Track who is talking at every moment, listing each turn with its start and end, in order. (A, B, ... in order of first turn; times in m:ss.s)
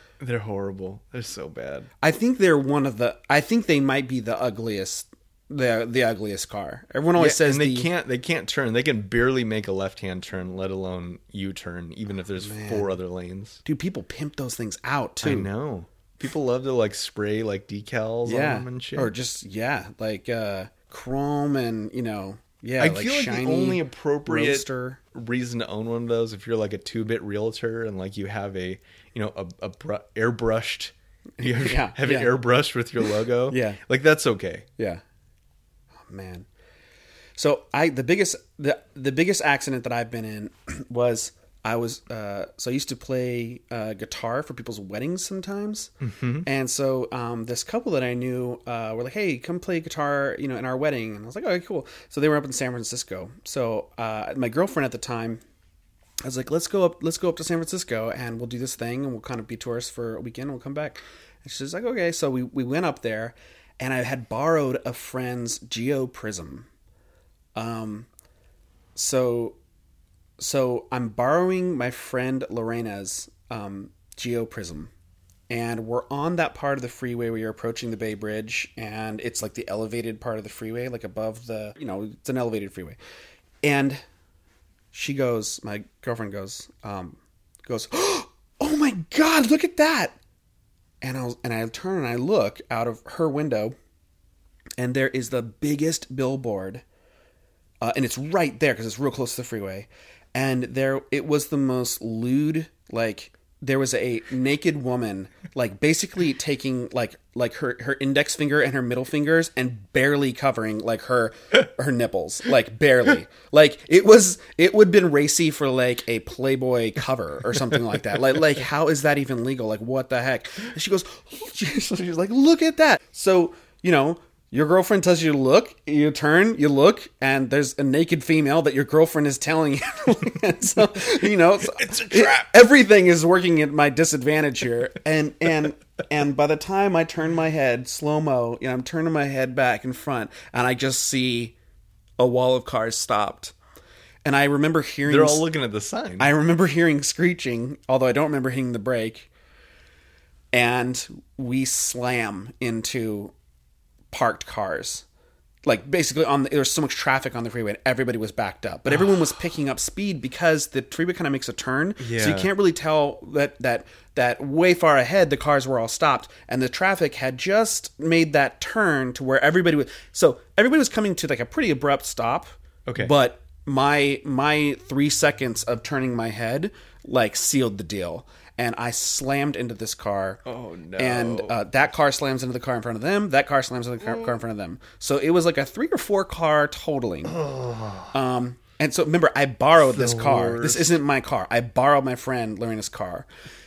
0:00.2-0:01.9 A
0:02.0-0:07.9 B
0:07.2-0:13.6 A
0:12.4-0:12.9 B
0:13.6-0:15.5 B
0:15.2-0:19.1 A
0:18.2-0:25.0 B
0:22.8-0:34.7 A
0:31.4-0:32.4 B
0:33.0-0:33.8 B
0:36.1-0:36.4 B
0:37.4-0:45.9 B
0:46.0-0:46.5 A
0:46.4-0:55.4 B
0:56.2-1:06.7 B
1:07.5-1:08.1 B
1:09.0-1:09.6 B
1:10.4-1:14.9 B
1:15.5-1:23.0 B
1:23.6-1:24.0 B
1:24.9-1:30.2 B
1:31.0-1:33.7 B
1:34.8-1:36.8 B
1:37.8-2:21.5 B
2:11.6-2:12.4 A
2:22.2-2:23.5 B
2:24.2-2:25.5 B
2:25.0-2:26.3 A
2:26.2-2:29.3 B
2:30.5-2:33.3 B
2:34.1-2:35.0 B
2:35.6-3:00.4 B
2:42.0-2:42.5 A
2:52.8-2:53.1 A
3:00.4-3:01.6 A
3:01.0-3:07.4 B
3:07.2-3:08.1 A
3:08.1-3:13.3 B
3:09.8-3:11.0 A